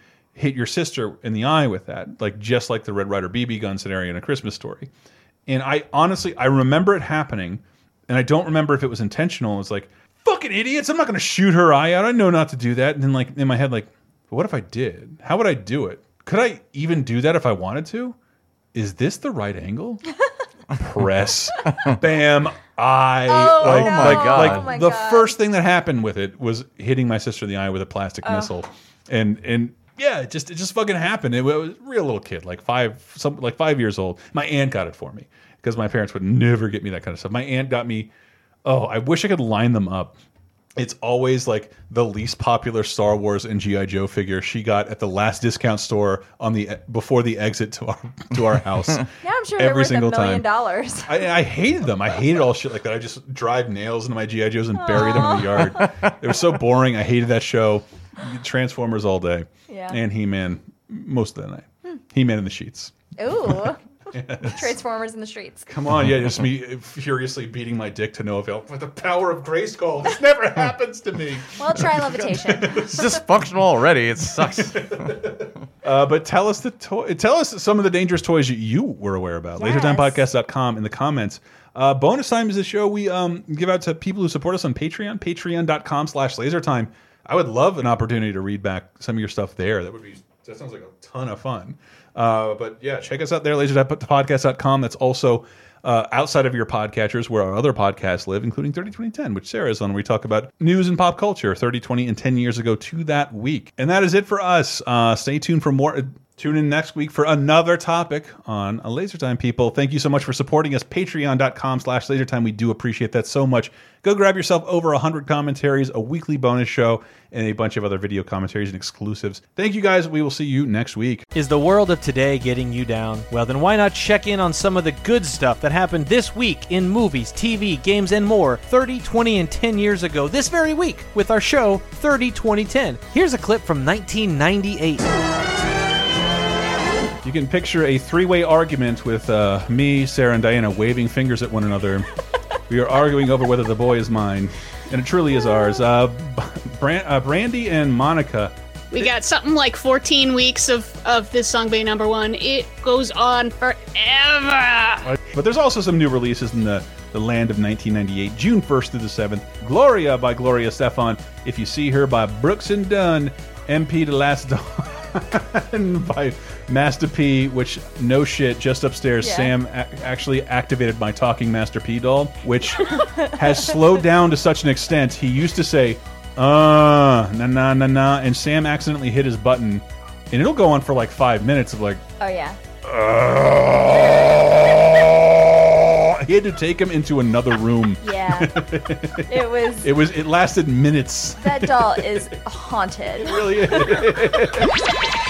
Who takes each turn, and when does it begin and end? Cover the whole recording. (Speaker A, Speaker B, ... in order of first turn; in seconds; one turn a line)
Speaker A: 0.3-4.9
Speaker A: 5.5-18.1
Speaker A: 18.7-20.0
Speaker A: 20.7-38.1
Speaker B: 21.7-22.0
Speaker C: 23.3-25.4
Speaker B: 23.6-24.7
Speaker C: 28.2-28.5
Speaker A: 38.6-40.2
Speaker A: 40.8-50.4
Speaker C: 49.2-51.3
Speaker A: 51.0-62.9
Speaker C: 54.8-55.9
Speaker C: 59.7-60.0
Speaker C: 63.2-63.8
Speaker A: 64.1-64.7
Speaker C: 64.4-65.7
Speaker A: 65.7-73.1
Speaker C: 71.5-73.2
Speaker B: 72.9-75.5
Speaker A: 74.7-121.2
Speaker C: 79.6-80.2
Speaker D: 121.3-135.1
Speaker A: 137.2-142.1
Speaker A: 142.7-148.5
Speaker E: 148.9-155.1
Speaker A: 155.3-182.0
Speaker C: 169.2-169.5
Speaker C: 172.8-173.8
Speaker C: 182.2-182.6
Speaker A: 182.8-192.2
Speaker C: 188.0-188.5
Speaker C: 189.3-189.9
Speaker C: 191.4-194.2
Speaker A: 193.2-194.7